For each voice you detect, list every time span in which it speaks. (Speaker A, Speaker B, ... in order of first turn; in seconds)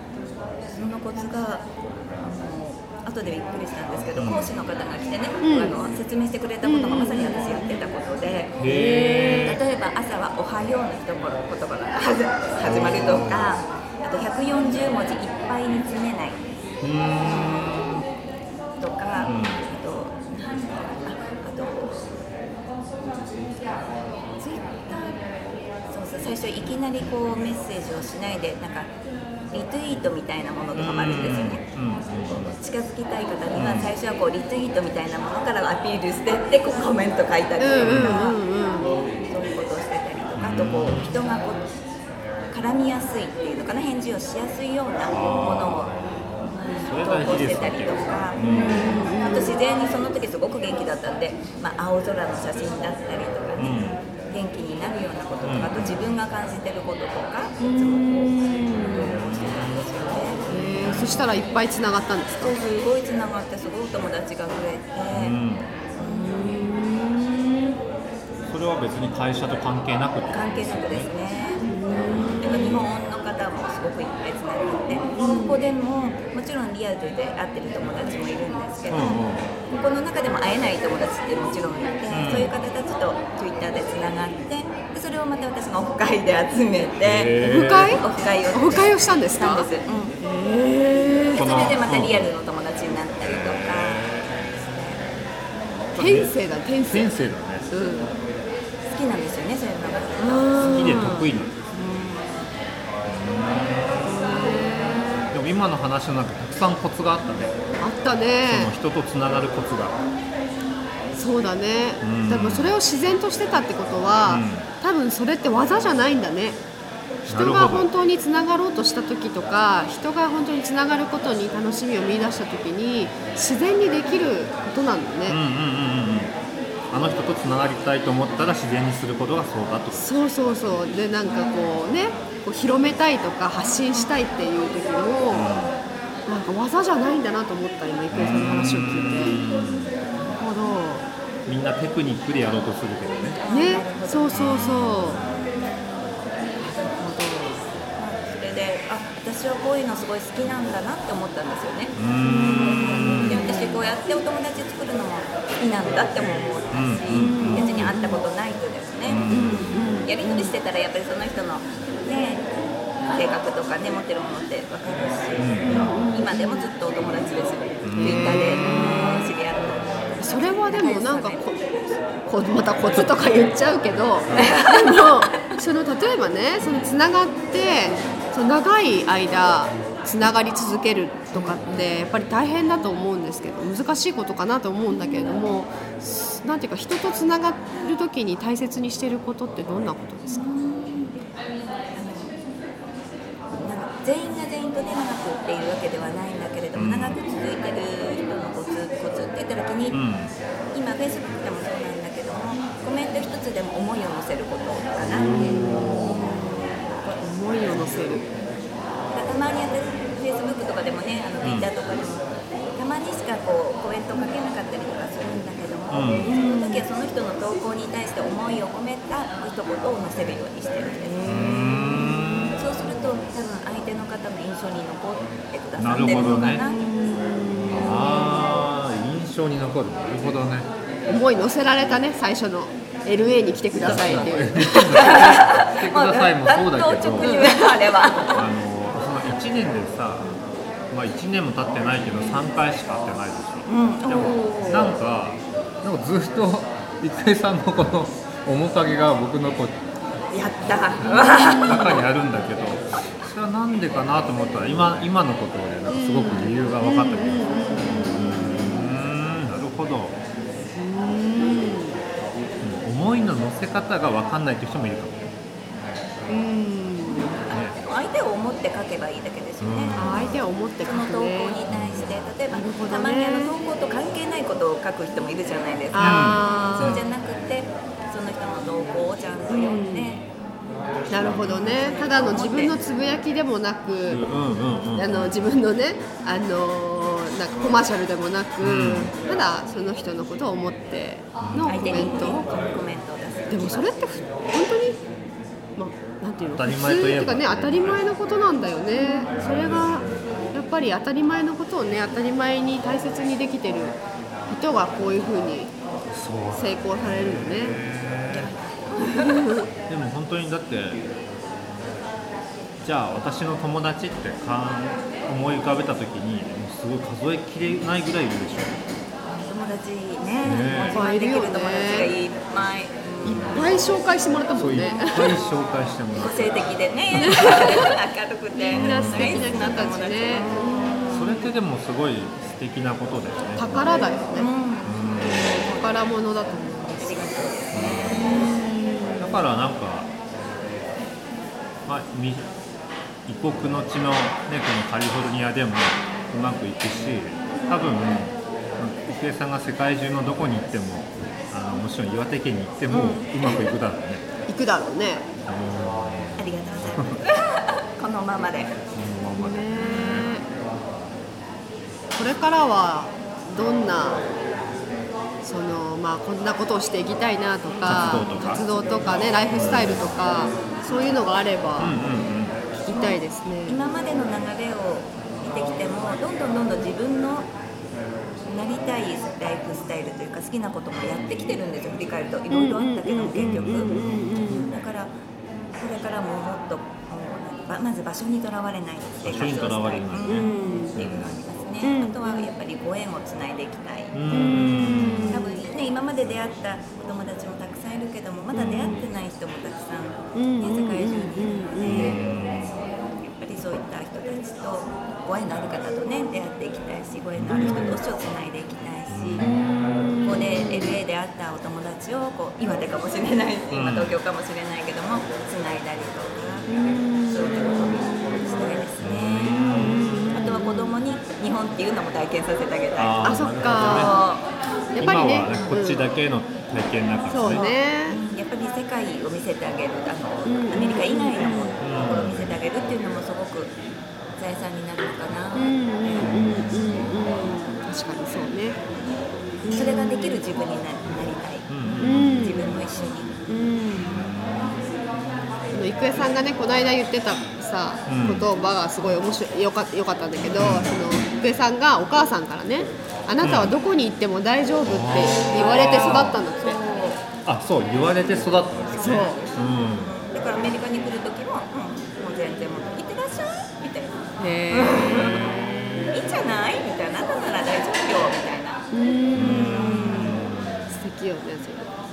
Speaker A: 0.7-8.6, 9.4-16.4, 18.8-22.1, 24.4-25.2, 25.9-28.9, 29.5-31.6, 32.3-38.4, 39.2-41.7, 42.5-45.9, 46.5-60.4, 62.4-65.4, 70.3-71.6, 72.4-90.2, 91.3-95.0, 98.9-101.1, 101.7-102.5, 143.3-146.0, 147.9-159.3, 160.0-162.5, 163.1-171.4, 174.3-175.3, 190.3-191.4, 191.9-192.4, 193.5-200.0, 200.7-205.3, 209.1-221.4, 222.5-226.8, 234.9-238.4, 243.7-245.0, 250.3-252.0, 267.4-280.2, 281.2-282.8, 291.7-294.0, 319.2-323.8, 326.2-331.2, 334.3-336.1, 336.9-338.6, 352.9-353.6, 356.4-358.8, 372.9-377.5, 378.5-385.1, 385.7-394.8, 395.3-402.2, 403.1-409.5, 410.2-416.7, 417.3-424.5, 427.4-433.7, 434.4-436.3, 439.7-441.7, 442.2-443.3, 455.4-457.2, 458.9-465.5, 466.1-468.8
Speaker B: 4.2-4.5, 8.6-9.6, 12.6-13.6, 16.8-18.0, 19.2-19.6, 30.8-32.6, 33.5-33.9, 37.8-38.2, 40.4-41.2, 45.1-49.1, 53.6-54.0, 55.5-56.1, 58.9-59.9, 60.8-61.2, 65.1-65.7, 68.5-71.1, 72.1-72.8, 78.9-79.5, 82.1-82.5, 87.0-88.0, 91.3-92.3, 93.2-94.4, 96.0-96.3, 96.8-97.7, 100.6-101.6, 103.1-107.6, 108.4-110.0, 112.0-112.8, 114.2-114.7, 117.3-117.9, 125.2-126.3, 126.9-130.1, 135.3-135.8, 138.1-139.9, 141.5-143.4, 144.3-145.2, 151.9-153.5, 156.7-157.9, 159.1-159.9, 165.4-165.9, 167.8-168.6, 196.8-197.2, 199.9-200.3, 205.1-206.3, 211.4-211.7, 215.9-216.3, 221.2-222.7, 225.8-226.6, 227.7-230.7, 233.8-237.4, 238.3-240.3, 240.9-249.8, 251.6-260.2, 262.6-265.3, 267.5-267.8, 269.6-270.3, 271.7-272.1, 276.0-277.1, 284.1-285.5, 288.6-289.1, 291.4-291.8, 296.5-298.0, 299.4-300.3, 306.1-308.5, 309.9-311.0, 312.8-318.8, 320.4-321.0, 323.2-323.6, 324.5-327.4, 328.7-329.8, 331.1-333.8, 334.8-335.7, 337.7-338.3, 339.2-340.1, 341.9-342.5, 343.2-354.2, 355.5-356.5, 358.9-360.4, 367.8-370.2, 371.8-372.6, 383.4-384.3, 389.2-391.4, 394.1-395.4, 398.5-399.1, 401.8-402.9, 407.4-408.0, 409.1-409.5, 413.7-414.2, 419.0-420.2, 423.0-424.2, 425.0-427.6, 431.8-432.5, 436.2-437.1, 441.7-442.6, 444.0-444.8, 448.1-448.5, 450.6-451.0, 453.4-453.8, 454.9-456.4, 457.4-460.2, 469.3-470.9
Speaker C: 5.4-5.8, 6.6-7.5, 8.6-9.6, 37.6-39.0, 48.4-49.6, 57.6-59.1, 60.5-62.5, 66.0-67.8, 71.6-72.7, 75.1-75.6, 87.4-89.7, 90.2-91.5, 96.0-97.2, 97.7-98.1, 100.2-101.3, 104.0-105.3, 107.8-108.7, 111.1-116.6, 117.2-125.4, 129.9-135.5, 136.3-139.4, 140.3-141.1, 143.5-145.2, 146.6-147.6, 152.2-153.8, 157.1-158.2, 159.3-160.5, 165.6-166.7, 168.0-169.3, 170.2-171.6, 172.2-190.4, 205.3-208.3, 216.2-216.8, 221.0-222.5, 226.6-228.7, 231.1-234.9, 237.2-237.5, 244.2-244.6, 251.1-252.0, 255.9-259.0, 260.8-262.0, 266.3-267.4, 269.9-271.6, 272.5-273.5, 275.9-277.0, 279.5-280.2, 281.1-284.2, 284.9-292.5, 293.5-295.0, 295.8-305.7, 306.5-307.8, 309.0-309.7, 320.9-322.1, 323.2-325.4, 327.2-327.9, 328.7-331.5, 333.6-334.5, 335.5-337.4, 338.1-339.4, 354.5-355.3, 359.4-360.5, 362.1-364.2, 365.4-371.9, 372.8-373.8, 382.5-384.7, 390.2-391.0, 391.8-392.5, 394.3-395.4, 400.3-402.2, 409.4-411.0, 416.7-418.8, 419.6-421.0, 423.2-424.2, 424.9-426.0, 427.3-428.2, 430.5-431.8, 435.5-438.8, 439.6-440.4, 442.0-442.7, 443.5-444.2, 445.7-456.8, 459.0-459.4, 464.4-466.1, 468.9-471.9